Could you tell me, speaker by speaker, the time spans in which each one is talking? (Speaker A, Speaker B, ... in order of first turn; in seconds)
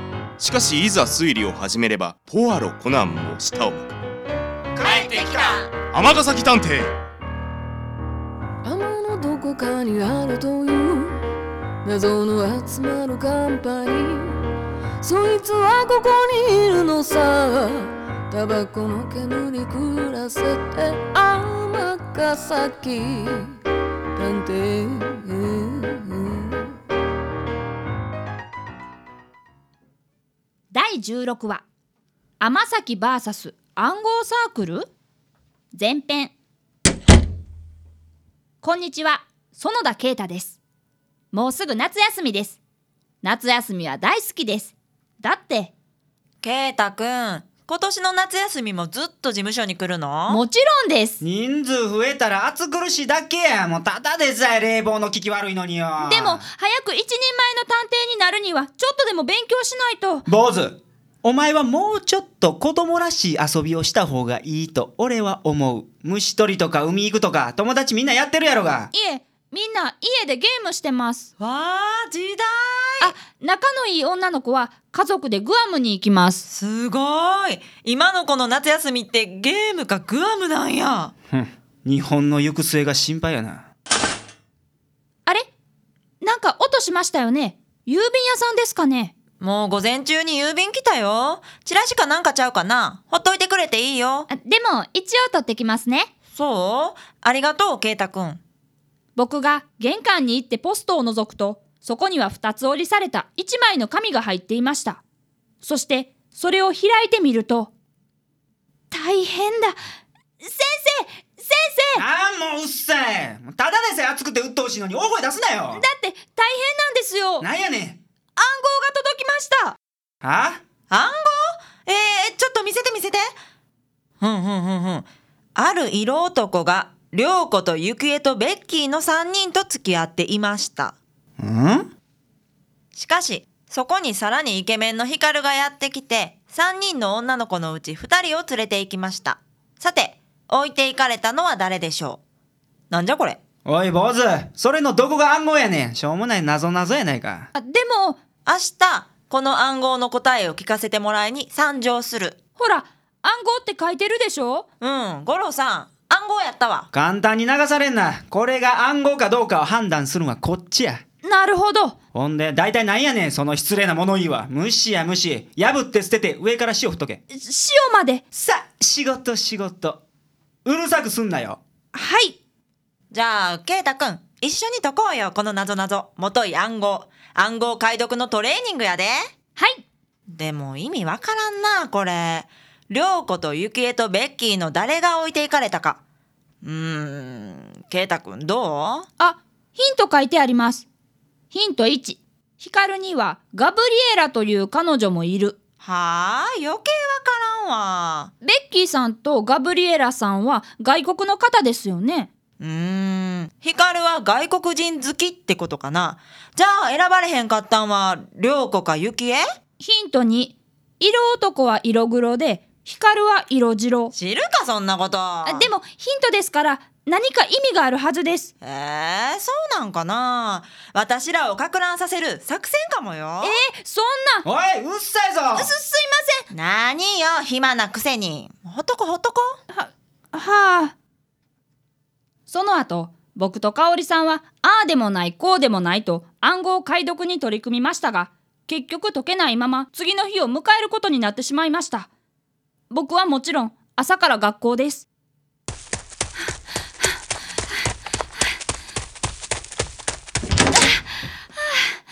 Speaker A: 0.4-3.9, 5.9-6.9
Speaker B: 4.8-5.6, 51.2-56.4, 60.3-68.9, 81.3-83.7, 112.0-115.8, 117.4-118.0, 120.2-120.6, 131.4-131.9, 143.7-147.5, 156.9-161.0, 162.1-167.2, 168.3-170.0, 170.7-171.6, 224.4-225.7
Speaker C: 4.8-5.7, 46.4-50.4, 71.4-73.1, 76.5-81.1, 89.4-94.3, 96.3-98.4, 120.9-123.3, 124.2-131.0, 132.9-142.2, 142.9-143.4, 148.4-152.4, 154.8-156.9, 173.1-179.3, 180.3-186.0, 186.6-189.1, 195.8-198.3, 202.6-209.4, 214.1-215.7, 218.6-223.6, 226.5-229.6
Speaker D: 8.7-11.2, 11.8-14.4, 15.0-23.5, 24.2-26.7
Speaker E: 30.7-31.6, 32.4-34.9, 35.7-36.3, 38.6-40.6, 41.3-42.6, 43.2-45.7, 50.3-51.2, 56.0-60.2, 68.9-71.3, 73.0-76.5, 86.2-89.2, 94.3-96.1, 99.2-105.0, 105.6-107.7, 108.9-109.8, 110.4-112.0, 115.7-117.5, 118.4-119.8, 147.6-148.2, 152.6-154.7, 161.2-162.0, 167.3-168.2, 171.9-172.4, 189.2-190.9, 191.5-195.6, 198.4-202.3, 209.8-214.1, 215.4-218.5, 223.4-224.4, 225.6-226.4, 229.7-230.9, 232.5-242.1, 242.9-245.1, 251.6-252.0